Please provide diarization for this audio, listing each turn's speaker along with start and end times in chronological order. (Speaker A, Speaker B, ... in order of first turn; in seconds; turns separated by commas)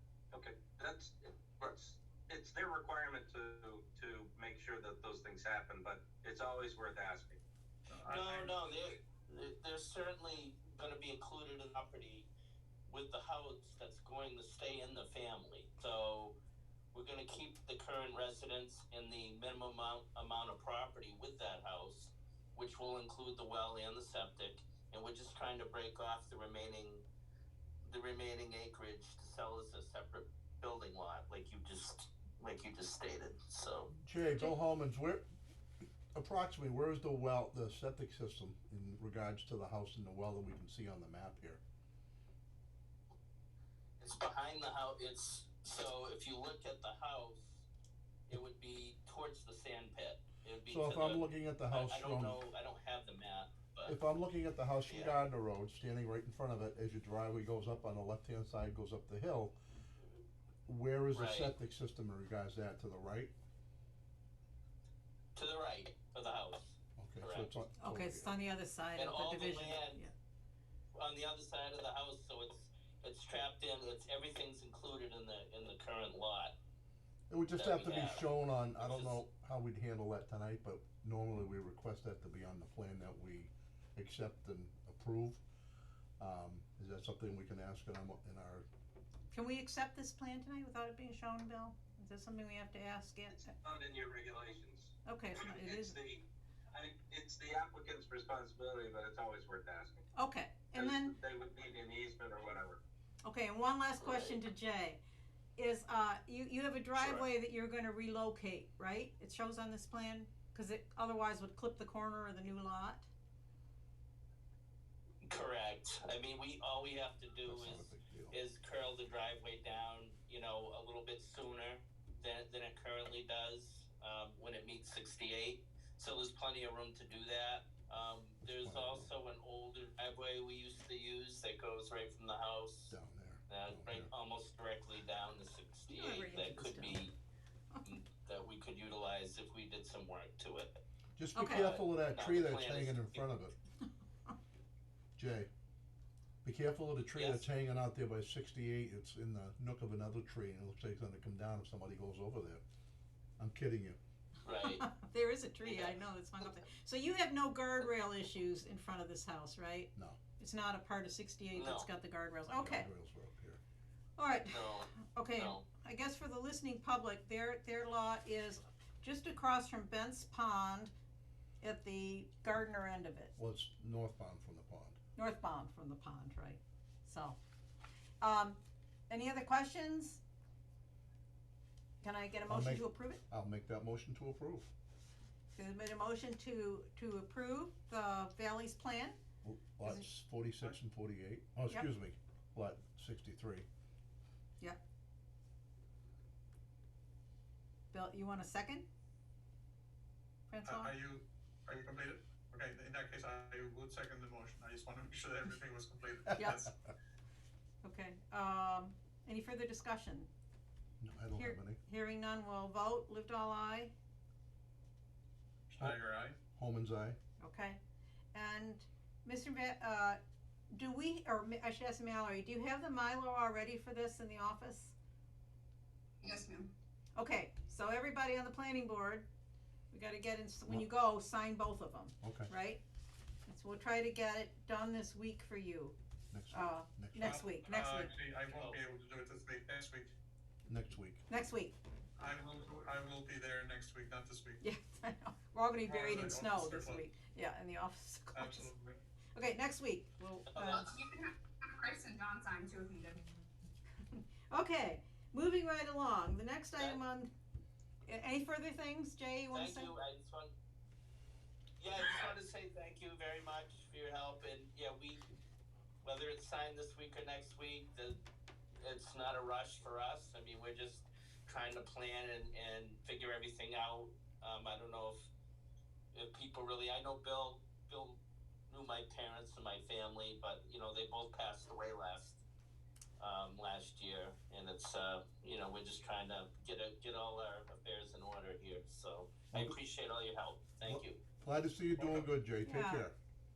Speaker A: 0.3-7.4, Speaker B: 7.9-8.5, Speaker C: 8.0-12.3, Speaker C: 12.9-16.4, Speaker C: 16.9-27.0, Speaker C: 27.8-33.9, Speaker D: 33.9-35.2, Speaker D: 36.1-41.6, Speaker C: 44.0-47.6, Speaker C: 48.3-54.0, Speaker D: 50.7-52.4, Speaker D: 53.8-59.5, Speaker C: 54.9-55.2, Speaker D: 60.6-63.3, Speaker C: 61.1-61.5, Speaker C: 65.3-67.6, Speaker D: 67.0-68.3, Speaker E: 67.8-70.1, Speaker C: 69.0-70.0, Speaker C: 71.0-76.5, Speaker D: 77.3-85.4, Speaker C: 77.5-79.2, Speaker D: 86.2-88.7, Speaker E: 89.3-93.5, Speaker A: 93.3-100.0, Speaker E: 95.0-96.0, Speaker E: 100.1-101.1, Speaker A: 100.7-102.8, Speaker E: 103.2-105.0, Speaker C: 104.0-104.4, Speaker E: 105.6-113.1, Speaker C: 106.9-107.2, Speaker C: 115.2-133.0, Speaker D: 117.4-118.4, Speaker D: 128.4-129.1, Speaker D: 132.9-134.1, Speaker C: 133.5-137.1, Speaker E: 135.9-137.0, Speaker C: 137.8-140.8, Speaker D: 141.2-143.5, Speaker E: 141.3-141.8, Speaker C: 141.6-143.2, Speaker D: 145.2-145.5, Speaker D: 146.4-152.6, Speaker C: 147.1-147.5, Speaker D: 153.4-154.0, Speaker C: 154.4-154.8, Speaker E: 154.6-162.9, Speaker C: 155.6-155.9, Speaker C: 161.5-161.9, Speaker D: 162.5-163.6, Speaker E: 164.2-170.9, Speaker C: 164.5-165.6, Speaker E: 171.6-173.3, Speaker D: 173.4-175.0, Speaker E: 175.2-177.4, Speaker E: 178.2-180.2, Speaker E: 182.0-183.2, Speaker D: 182.5-184.7, Speaker E: 185.5-189.2, Speaker D: 189.4-193.6, Speaker E: 189.8-190.1, Speaker E: 197.9-198.9, Speaker E: 200.5-200.9, Speaker B: 200.6-206.7, Speaker E: 206.3-206.7, Speaker E: 207.8-210.3, Speaker D: 211.0-211.8, Speaker E: 211.3-213.9, Speaker B: 215.7-216.4, Speaker D: 216.5-217.2, Speaker E: 217.4-217.8, Speaker E: 218.3-220.2, Speaker E: 220.7-224.9, Speaker F: 226.2-226.7, Speaker E: 227.1-229.3, Speaker E: 229.9-232.8, Speaker D: 232.2-232.5, Speaker E: 233.4-235.9, Speaker D: 236.3-237.4, Speaker E: 236.5-238.1, Speaker B: 237.2-240.1, Speaker C: 238.5-238.8, Speaker D: 240.7-241.2, Speaker E: 241.3-241.8, Speaker B: 242.2-244.6, Speaker E: 244.6-248.7, Speaker B: 245.8-247.0, Speaker B: 248.3-249.0, Speaker E: 249.3-250.9, Speaker C: 250.5-250.9, Speaker F: 250.8-253.2, Speaker E: 254.5-257.3, Speaker E: 258.0-259.9, Speaker C: 259.5-260.5, Speaker C: 261.8-265.2, Speaker C: 266.0-268.2, Speaker C: 268.8-275.3, Speaker C: 276.1-282.4, Speaker C: 283.2-291.2, Speaker D: 290.8-293.1, Speaker C: 292.0-292.3, Speaker E: 292.6-293.1